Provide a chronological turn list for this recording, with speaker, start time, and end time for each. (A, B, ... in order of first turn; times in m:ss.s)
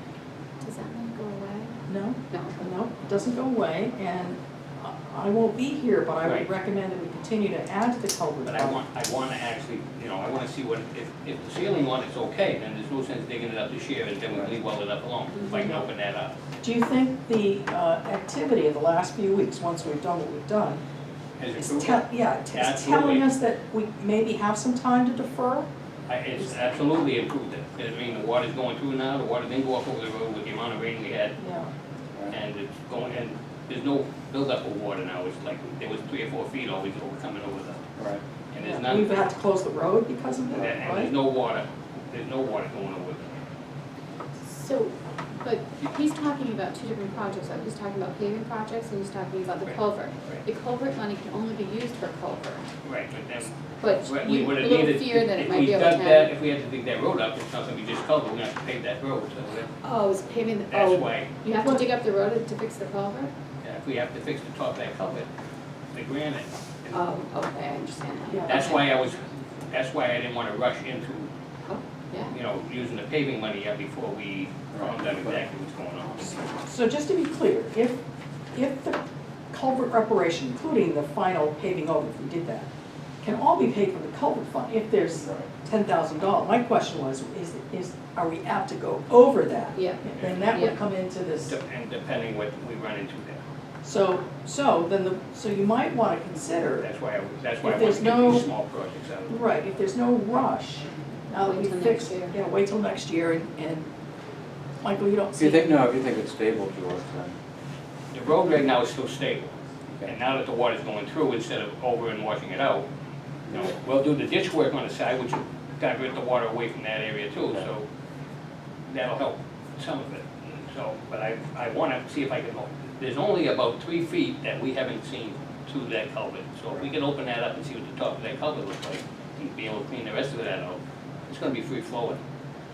0:00.6-0:01.7 A
0:01.9-0:08.8 B
0:02.3-0:02.6 A
0:08.4-0:16.4 C
0:15.4-0:15.8 A
0:16.6-0:20.8 B
0:21.4-0:23.2 C
0:21.6-0:25.7 B
0:26.1-0:31.4 C
0:31.4-0:31.7 B
0:32.3-0:37.8 C
0:38.5-0:39.2 C
0:38.6-0:41.1 B
0:40.5-0:43.3 C
0:44.5-0:52.6 A
0:52.8-0:59.7 C
0:53.8-0:56.3 A
0:59.8-1:03.3 A
1:00.7-1:01.3 C
1:03.6-1:05.3 C
1:05.9-1:07.0 C
1:06.9-1:08.8 A
1:08.3-1:08.7 B
1:08.5-1:09.2 C
1:09.7-1:11.3 C
1:11.7-1:12.4 A
1:12.3-1:16.4 C
1:14.7-1:15.1 D
1:16.6-1:18.0 B
1:18.5-1:19.0 B
1:19.5-1:22.7 B
1:23.2-1:31.6 B
1:25.2-1:25.5 D
1:29.7-1:30.8 A
1:30.2-1:30.8 C
1:31.4-1:33.4 C
1:33.8-1:36.9 B
1:36.8-1:39.4 C
1:37.6-1:38.5 B
1:39.3-1:43.9 B
1:41.3-1:42.4 A
1:44.8-1:45.8 B
1:45.4-1:47.4 D
1:48.1-1:49.5 C
1:50.0-1:52.8 C
1:53.5-1:57.8 C
1:58.9-2:12.2 C